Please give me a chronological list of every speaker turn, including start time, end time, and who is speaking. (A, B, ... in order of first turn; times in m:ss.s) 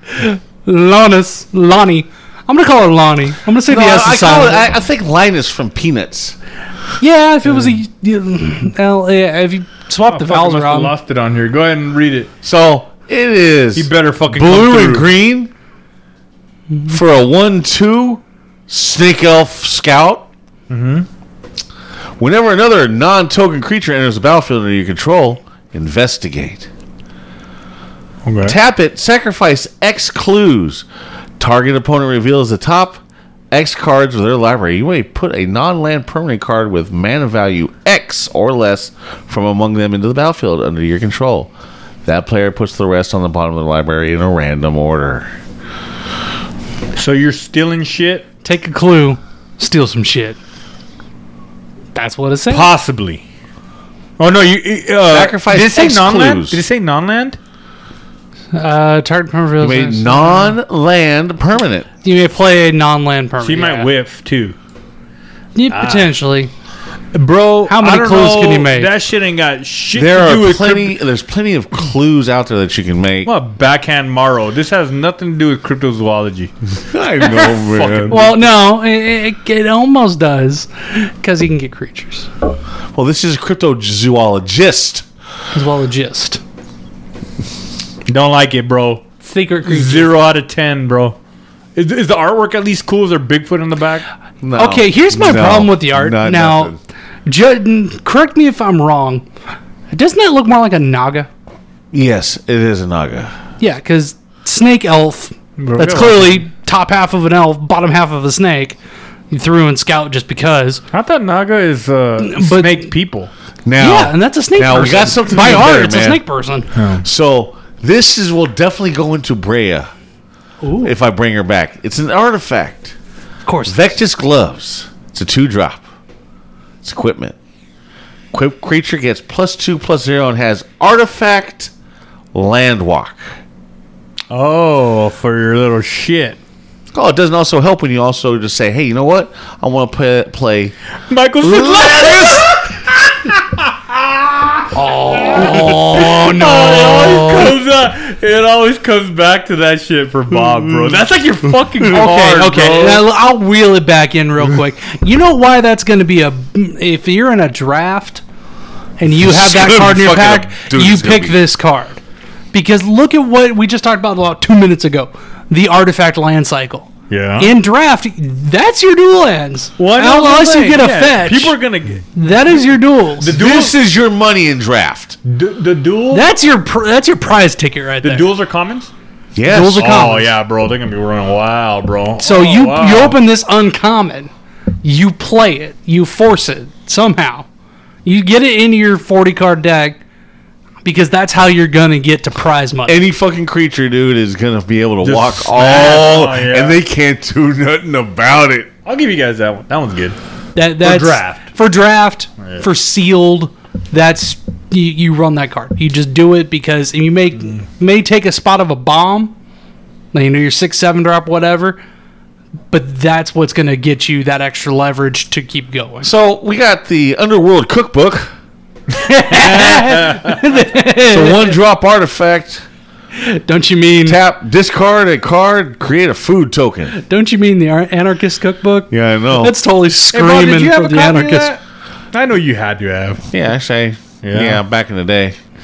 0:00.2-0:04.7 A
0:03.7-0:06.4 B
0:07.0-0:10.9 A
0:10.1-0:12.3 C
0:12.4-0:15.5 B
0:13.8-0:15.1 C
0:16.9-0:20.3 B
0:20.7-0:21.1 C
0:22.2-0:26.7 B
0:28.2-0:28.6 C
0:28.4-0:30.9 B
0:31.4-0:33.0 B
0:33.5-0:41.5 B
0:42.0-0:45.3 B
0:46.9-0:48.2 C
0:48.4-0:50.4 A
0:51.9-0:52.7 A
0:52.5-0:53.2 C
0:54.2-0:57.4 C
0:55.1-0:56.6 B
0:58.5-1:00.6 A
0:59.6-1:01.9 B
1:02.0-1:03.9 A
1:03.4-1:04.6 C
1:05.6-1:06.5 A
1:05.7-1:06.1 C
1:07.1-1:11.0 C
1:07.7-1:08.9 A
1:09.9-1:13.3 B
1:13.2-1:16.5 C
1:16.9-1:18.2 B
1:17.5-1:18.3 C
1:18.1-1:22.3 A
1:22.9-1:25.0 B
1:25.5-1:26.4 A
1:28.1-1:29.1 C
1:29.2-1:30.1 A
1:29.6-1:31.2 C
1:31.8-1:34.0 C
1:34.4-1:36.8 B
1:34.6-1:39.3 A
1:39.9-1:41.3 A
1:41.9-1:43.3 B
1:43.6-1:48.8 A
1:45.6-1:46.4 C
1:49.3-1:50.8 A
1:50.9-1:53.3 C
1:52.2-1:52.9 A
1:53.6-1:56.2 B
1:53.8-1:56.7 A
1:56.7-1:57.0 C
1:57.0-1:59.9 B
2:00.6-2:00.9 A
2:00.8-2:03.0 B
2:03.4-2:03.8 A
2:03.6-2:05.8 B
2:06.8-2:07.3 B
2:08.3-2:11.7 B
2:12.3-2:13.2 B
2:14.3-2:16.4 C
2:16.9-2:20.7 B
2:21.1-2:24.7 C
2:21.4-2:22.5 B
2:24.7-2:27.6 A
2:25.3-2:33.0 C
2:31.8-2:32.9 B
2:31.9-2:38.2 A
2:39.0-2:42.0 A
2:39.2-2:41.4 B
2:42.5-2:51.6 A
2:47.1-2:47.5 C
2:49.8-2:52.1 C
2:52.1-2:53.3 A
2:53.2-2:53.7 C
2:53.3-2:55.2 B
2:55.2-2:56.3 C
2:56.1-2:58.3 A
2:58.0-2:58.9 C
2:59.3-3:00.0 B
2:59.4-3:00.3 A
2:59.8-3:03.2 C
3:02.2-3:04.3 A
3:04.8-3:07.5 A
3:08.0-3:10.0 A
3:10.8-3:13.0 A
3:12.9-3:18.7 B
3:15.0-3:16.8 C
3:18.9-3:20.2 C
3:20.6-3:29.3 A
3:20.8-3:21.4 C
3:30.1-3:31.8 A
3:32.7-3:36.1 A
3:36.0-3:38.3 B
3:38.9-3:41.6 A
3:39.4-3:40.4 C
3:41.1-3:42.6 B
3:43.2-3:44.2 A
3:44.0-3:46.9 B
3:46.9-3:51.5 A
3:48.9-3:49.6 B
3:50.1-3:51.6 C
3:52.1-3:53.3 C
3:53.3-3:55.4 B
3:54.2-3:54.6 C